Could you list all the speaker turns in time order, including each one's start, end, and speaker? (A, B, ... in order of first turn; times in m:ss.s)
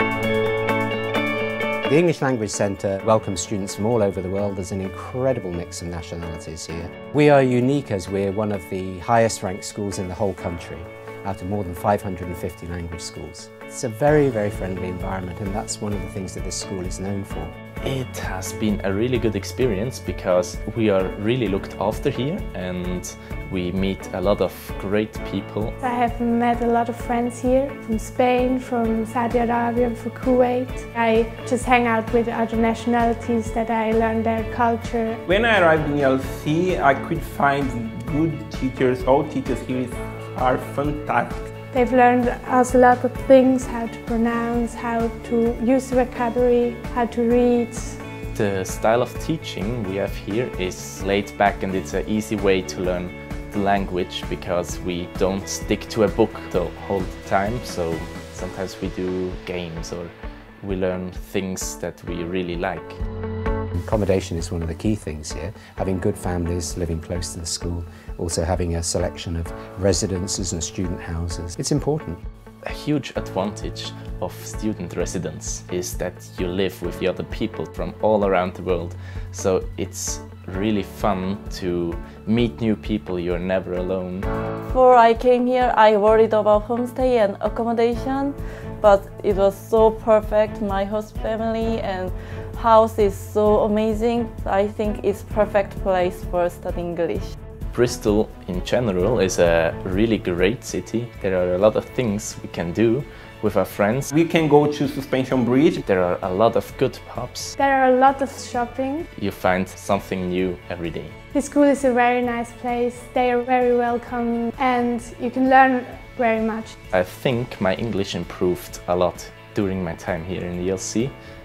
0:01.9-0:17.5 A
0:17.8-0:25.8 B
0:25.8-0:35.2 C
0:35.2-0:41.5 D
0:41.7-0:48.0 C
0:48.3-1:03.0 B
1:03.8-1:12.2 A
1:12.6-1:24.3 B
1:24.7-1:37.3 E
1:37.7-1:44.1 B
1:44.1-1:45.8 D
1:45.8-1:47.6 B
1:47.6-1:49.1 C
1:49.1-1:51.1 B
1:51.3-1:56.8 C
1:56.9-2:01.1 B